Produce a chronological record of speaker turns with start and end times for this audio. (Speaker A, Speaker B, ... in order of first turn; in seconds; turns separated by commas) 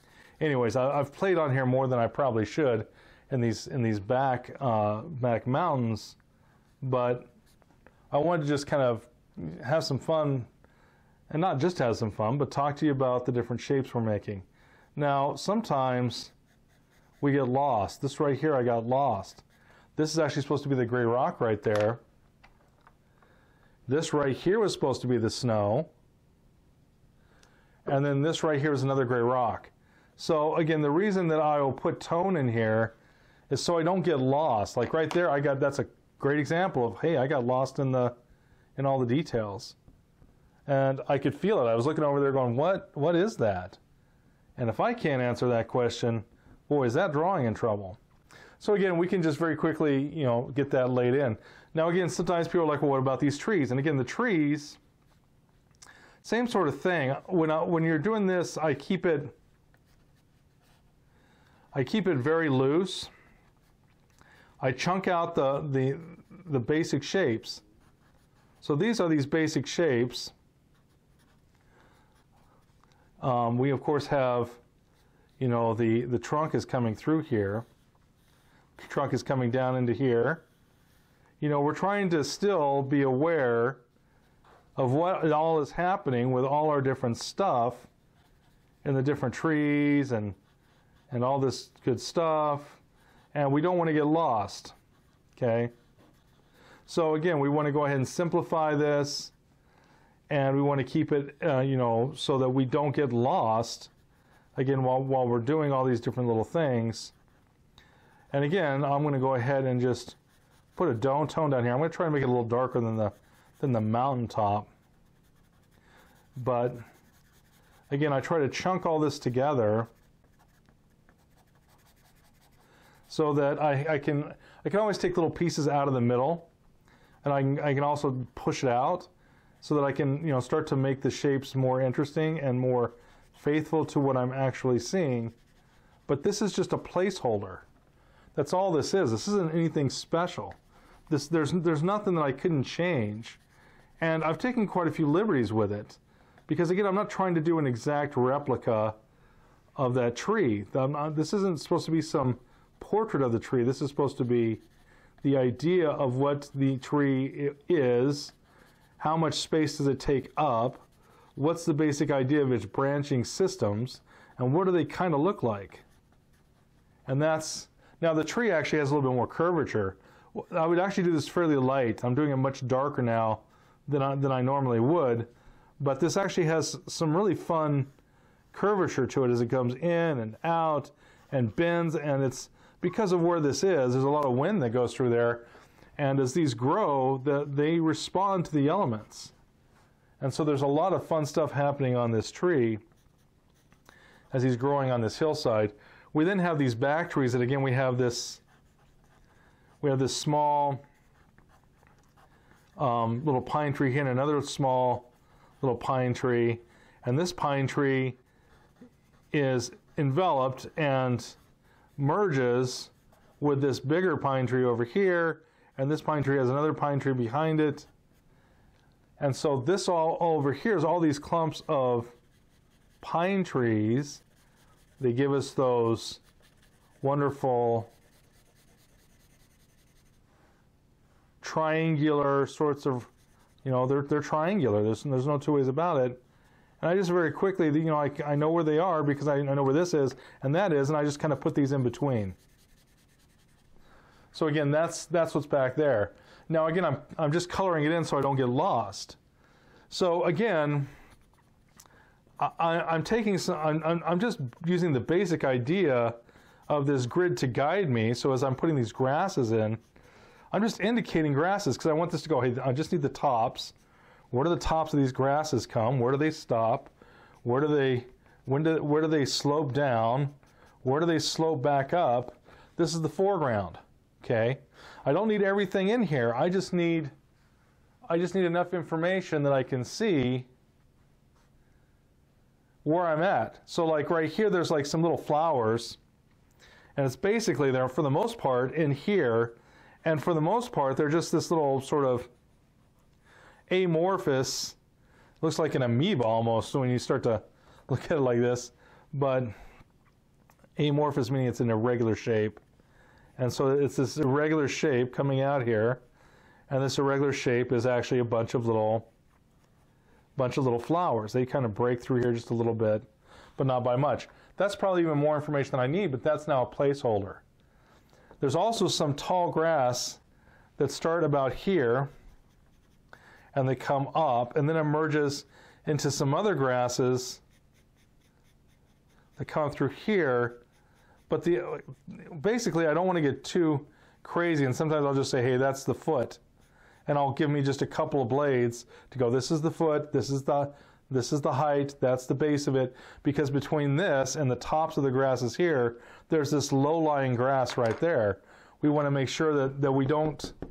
Speaker A: 0.4-6.2, Speaker A: 6.8-7.3, Speaker A: 8.1-10.5, Speaker A: 11.3-16.3, Speaker A: 17.2-19.4, Speaker A: 19.9-22.0, Speaker A: 23.9-25.9, Speaker A: 27.9-32.9, Speaker A: 33.5-38.1, Speaker A: 38.8-39.8, Speaker A: 40.7-43.8, Speaker A: 44.6-48.0, Speaker A: 48.6-54.8, Speaker A: 56.2-59.3, Speaker A: 61.7-63.1, Speaker A: 64.6-67.6, Speaker A: 68.6-70.3, Speaker A: 73.2-74.6, Speaker A: 75.4-77.7, Speaker A: 78.8-80.4, Speaker A: 81.4-83.8, Speaker A: 84.8-87.9, Speaker A: 88.8-90.4, Speaker A: 91.1-92.8, Speaker A: 93.3-94.7, Speaker A: 95.3-95.7, Speaker A: 96.8-99.3, Speaker A: 100.3-103.9, Speaker A: 104.5-107.1, Speaker A: 108.3-110.2, Speaker A: 110.7-114.7, Speaker A: 116.4-116.8, Speaker A: 117.9-119.9, Speaker A: 123.1-126.5, Speaker A: 127.2-129.1, Speaker A: 129.6-135.3, Speaker A: 136.1-137.7, Speaker A: 138.3-140.6, Speaker A: 141.1-143.4, Speaker A: 144.0-148.9, Speaker A: 149.8-154.6, Speaker A: 155.2-158.3, Speaker A: 159.0-165.8, Speaker A: 167.1-177.9, Speaker A: 178.5-185.4, Speaker A: 186.0-189.3, Speaker A: 190.2-192.8, Speaker A: 194.3-198.4, Speaker A: 199.8-200.8, Speaker A: 202.8-205.1, Speaker A: 205.6-208.2, Speaker A: 209.3-211.4, Speaker A: 212.0-217.9, Speaker A: 219.2-222.1, Speaker A: 223.0-224.2, Speaker A: 225.0-226.2, Speaker A: 227.0-227.9, Speaker A: 231.4-233.1, Speaker A: 233.6-236.2, Speaker A: 236.8-242.4, Speaker A: 244.3-249.2, Speaker A: 249.9-250.9, Speaker A: 252.4-256.2, Speaker A: 256.7-259.8, Speaker A: 260.5-263.7, Speaker A: 264.3-266.9, Speaker A: 267.4-277.1, Speaker A: 278.1-280.5, Speaker A: 282.8-286.0, Speaker A: 286.9-292.3, Speaker A: 293.7-294.8, Speaker A: 295.4-299.5, Speaker A: 300.8-302.6, Speaker A: 303.4-306.0, Speaker A: 306.7-309.1, Speaker A: 310.4-317.4, Speaker A: 318.4-320.2, Speaker A: 320.8-322.1, Speaker A: 323.5-327.4, Speaker A: 329.4-330.6, Speaker A: 331.3-336.4, Speaker A: 337.1-350.5